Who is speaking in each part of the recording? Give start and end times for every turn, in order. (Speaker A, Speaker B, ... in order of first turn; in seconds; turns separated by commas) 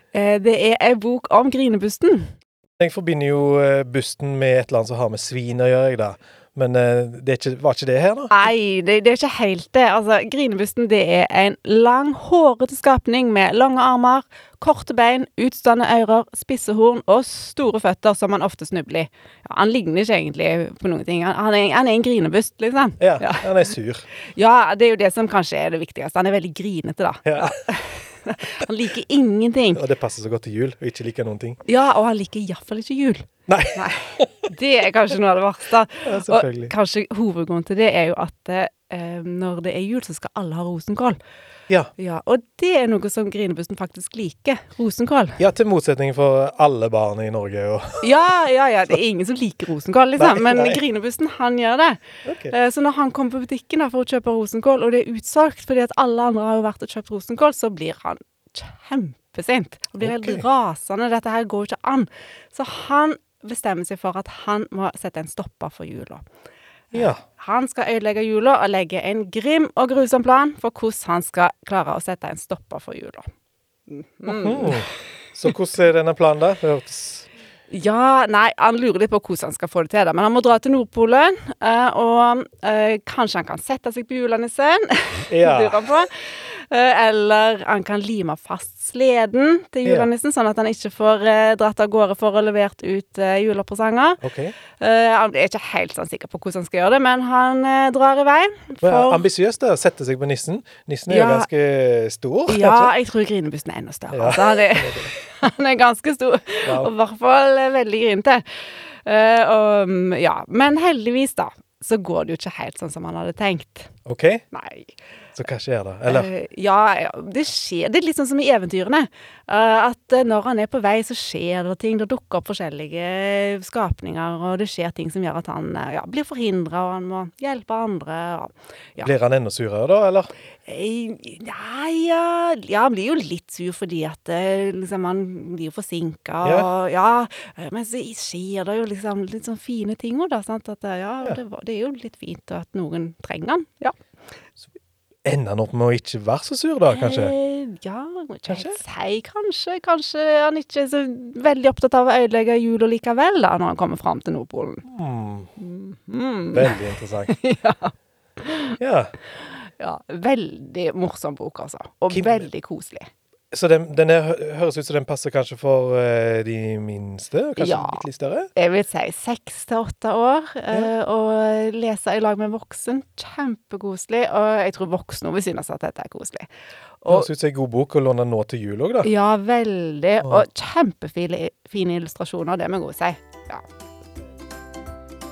Speaker A: 0.1-2.3, Speaker B: 2.8-8.4, Speaker A: 8.3-23.7, Speaker B: 23.0-24.0, Speaker A: 24.2-29.8, Speaker B: 27.2-27.5, Speaker B: 29.7-31.6, Speaker A: 31.6-41.2, Speaker B: 33.5-34.5, Speaker B: 36.0-36.7, Speaker A: 42.0-45.4, Speaker B: 45.4-48.2, Speaker A: 48.0-66.2, Speaker B: 50.2-50.8, Speaker B: 52.2-52.5, Speaker B: 60.0-60.4, Speaker B: 66.9-67.2, Speaker A: 67.3-73.3, Speaker A: 73.9-74.9, Speaker B: 74.2-77.3, Speaker A: 77.7-94.2, Speaker B: 85.3-85.9, Speaker B: 94.2-94.5, Speaker A: 94.7-99.2, Speaker B: 98.8-102.9, Speaker A: 101.1-101.5, Speaker A: 102.5-113.9, Speaker B: 104.1-105.1, Speaker B: 106.6-106.9, Speaker B: 114.0-114.4, Speaker A: 114.5-114.9, Speaker B: 115.3-116.3, Speaker A: 116.1-129.1, Speaker B: 129.0-130.3, Speaker A: 130.7-144.0, Speaker B: 136.4-136.7, Speaker B: 145.2-147.3, Speaker A: 146.9-154.9, Speaker B: 148.5-148.8, Speaker B: 154.9-155.5, Speaker A: 155.6-158.8, Speaker B: 156.5-157.3, Speaker B: 158.8-159.1, Speaker A: 159.4-163.1, Speaker B: 162.1-162.5, Speaker B: 163.5-168.5, Speaker A: 167.6-168.0, Speaker A: 168.6-176.5, Speaker A: 177.0-177.3, Speaker B: 177.1-179.1, Speaker A: 179.0-183.6, Speaker B: 180.2-180.5